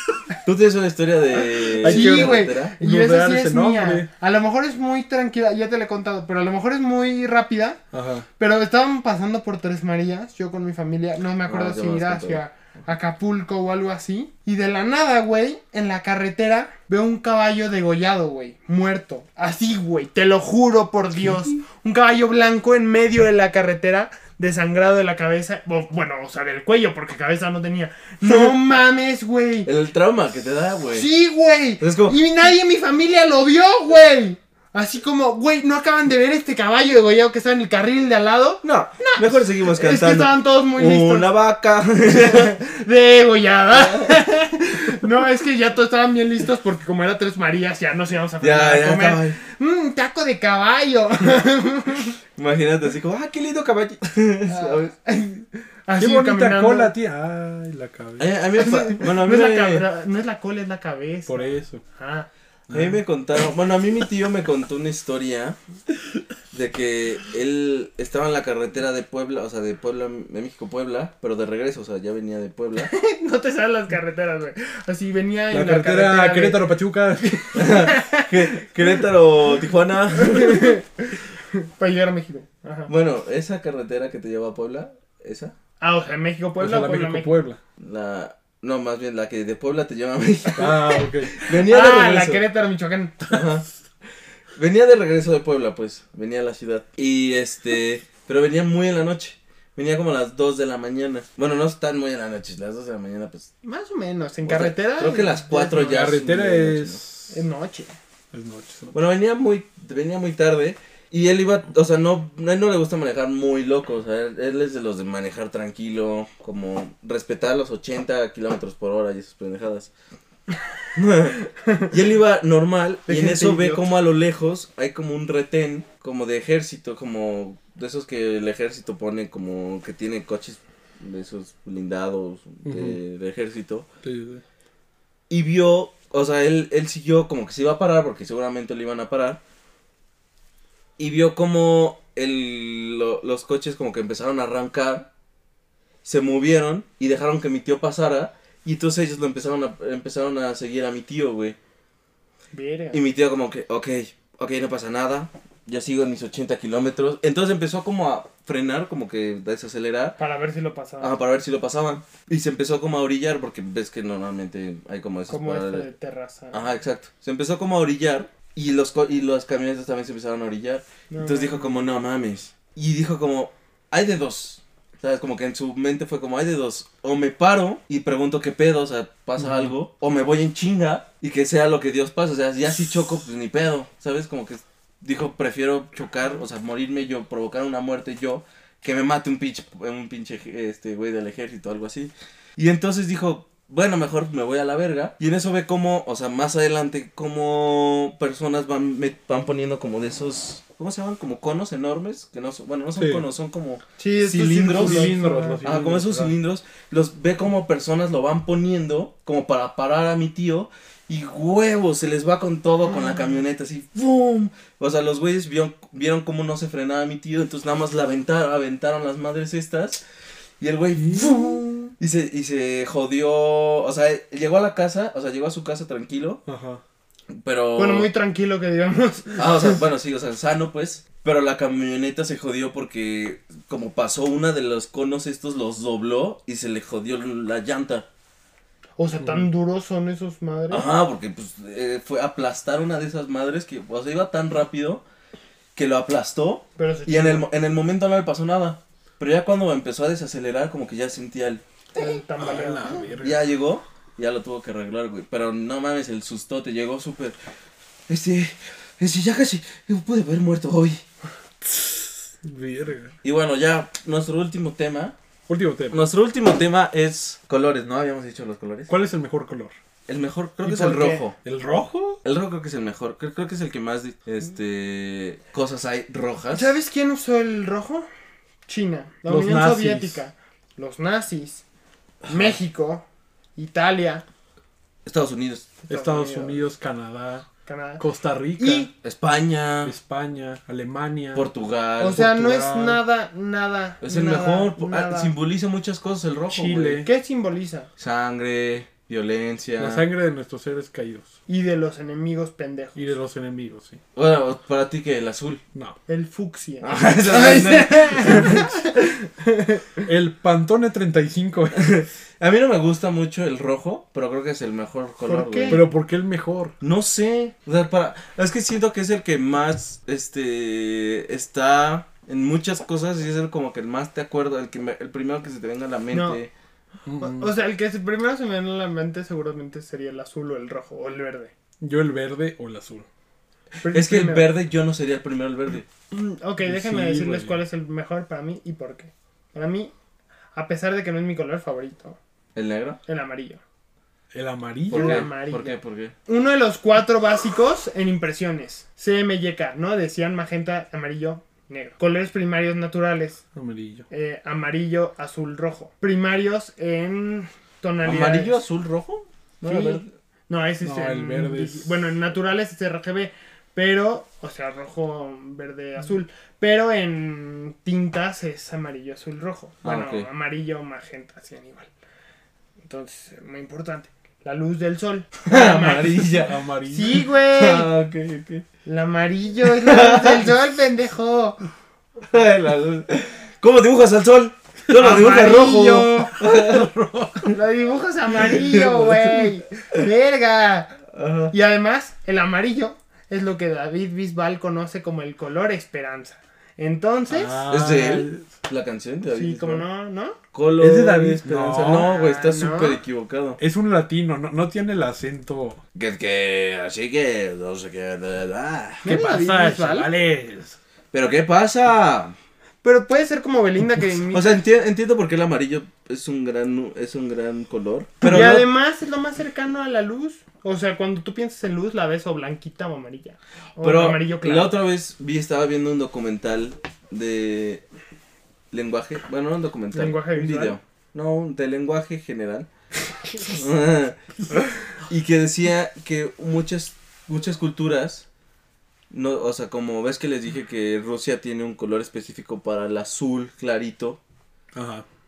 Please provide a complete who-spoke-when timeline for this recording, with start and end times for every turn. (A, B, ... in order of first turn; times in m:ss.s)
0:00.4-0:02.7 A
0:01.4-0:07.8 B
0:01.8-0:04.1 C
0:07.9-0:08.3 C
0:08.4-0:29.7 B
0:11.4-0:12.4 A
0:28.2-0:28.6 A
0:29.6-0:31.0 A
0:30.9-0:41.3 B
0:31.8-0:32.2 A
0:38.6-0:42.5 A
0:42.0-0:52.1 B
0:43.7-0:44.2 A
0:48.4-0:49.4 A
0:52.4-0:54.9 A
0:54.5-0:56.9 B
0:56.0-0:58.3 C
0:58.2-0:59.8 A
0:58.6-1:02.3 B
1:01.3-1:01.8 C
1:02.7-1:03.0 C
1:02.7-1:05.6 A
1:06.5-1:12.9 A
1:12.8-1:16.6 B
1:15.5-1:17.9 C
1:17.5-1:20.8 A
1:17.6-1:18.3 B
1:20.2-1:22.9 B
1:22.9-1:25.5 A
1:25.8-1:27.3 B
1:26.6-1:27.6 C
1:27.8-1:32.4 A
1:30.6-1:31.4 C
1:31.4-1:33.4 B
1:33.3-1:33.6 A
1:34.6-1:43.5 A
1:43.6-1:46.2 B
1:44.4-1:47.0 A
1:45.7-1:47.4 C
1:47.3-1:47.9 B
1:48.3-1:48.9 C
1:48.9-1:59.9 A
2:00.9-2:01.4 A
2:01.6-2:01.9 B
2:01.9-2:13.8 A
2:03.1-2:03.8 B
2:12.6-2:13.0 C
2:14.0-2:14.4 C
2:15.3-2:19.4 A
2:21.0-2:25.1 A
2:26.0-2:31.6 A
2:32.5-2:33.0 B
2:32.9-2:40.2 A
2:40.2-2:41.2 B
2:41.0-2:45.9 A
2:45.3-2:46.6 B
2:46.5-3:40.0 A
2:51.1-2:51.8 B
2:59.4-2:59.7 C
3:23.0-3:23.2 C
3:24.0-3:25.6 B
3:24.7-3:26.4 C
3:40.6-3:46.4 A
3:41.0-3:41.4 C
3:41.6-3:41.9 B
3:46.5-3:46.8 C
3:47.3-3:48.1 A
3:47.8-3:49.8 B
3:49.4-3:58.1 A
3:59.0-4:00.9 B
4:00.7-4:05.0 A
4:05.8-4:11.6 A
4:06.8-4:07.5 B
4:11.9-4:13.1 B
4:12.4-4:13.4 C
4:13.2-4:17.4 A
4:18.1-4:21.0 A
4:21.6-4:23.1 C
4:23.2-4:25.2 A
4:25.5-4:26.0 C
4:25.9-4:28.9 A
4:28.9-4:29.7 C
4:30.1-4:31.4 A
4:30.6-4:31.2 B
4:31.4-4:32.2 C
4:32.2-4:36.7 A
4:36.5-4:38.1 B
4:38.7-4:41.6 B
4:39.3-4:40.2 C
4:42.2-4:42.6 A
4:42.3-4:43.0 B
4:43.6-4:44.2 B
4:45.0-4:45.7 A
4:45.9-4:46.6 B
4:45.9-4:47.5 C
4:47.6-4:48.0 B
4:48.0-4:48.9 C
4:48.6-4:48.9 B
4:49.0-4:49.9 A
4:49.8-4:51.5 C
4:51.3-4:52.3 A
4:52.0-4:55.3 B
4:52.1-4:53.0 C
4:54.0-4:57.0 A
4:56.5-4:57.1 C
4:57.0-4:57.9 B
4:58.0-5:00.0 A
4:59.8-5:01.4 C
5:01.5-5:03.1 B
5:03.0-5:04.0 C
5:04.1-5:05.6 A
5:06.1-5:10.1 B
5:06.8-5:08.7 A
5:08.3-5:08.6 C
5:10.0-5:12.0 C
5:11.7-5:15.8 A
5:15.2-5:15.8 B
5:15.7-5:16.8 C
5:16.8-5:26.5 A
5:26.1-5:26.4 B
5:27.1-5:27.5 C
5:27.2-5:31.5 B
5:31.8-5:33.1 C
5:33.8-5:34.5 B
5:33.9-5:35.9 A
5:36.1-5:39.9 B
5:36.6-5:37.6 C
5:40.5-5:42.2 B
5:42.5-5:43.0 A
5:43.1-5:43.6 B
5:44.3-5:45.3 C
5:44.9-5:46.1 A
5:44.9-5:53.4 B
5:53.5-5:54.1 C
5:54.1-5:58.6 B
5:58.0-6:00.1 A
5:59.6-6:11.9 B
6:00.8-6:02.1 C
6:09.8-6:10.3 A
6:12.8-6:17.9 B
6:15.4-6:16.5 A
6:16.3-6:17.2 C
6:17.2-6:18.6 A
6:18.8-6:21.7 B
6:19.6-6:20.5 A
6:22.3-6:26.9 A
6:24.9-6:26.4 B
6:26.4-6:27.5 C
6:27.5-6:31.0 B
6:28.3-6:30.1 A
6:31.1-6:31.5 A
6:31.5-6:37.6 B
6:37.3-6:38.5 C
6:37.7-6:39.8 A
6:39.3-6:40.4 B
6:40.5-6:43.6 A
6:40.8-6:42.1 C
6:41.7-6:43.0 B
6:43.6-6:45.8 C
6:45.9-6:49.1 A
6:49.0-6:50.1 B
6:49.0-6:50.8 C
6:51.1-6:52.4 A
6:52.8-6:54.6 B
6:54.3-6:58.6 A
6:58.2-7:04.8 B
6:58.2-6:58.6 C
7:03.8-7:07.8 A
7:08.7-7:12.7 A
7:09.9-7:10.8 B
7:13.4-7:14.2 A
7:15.1-7:18.2 A
7:19.1-7:24.2 A
7:24.8-7:25.1 C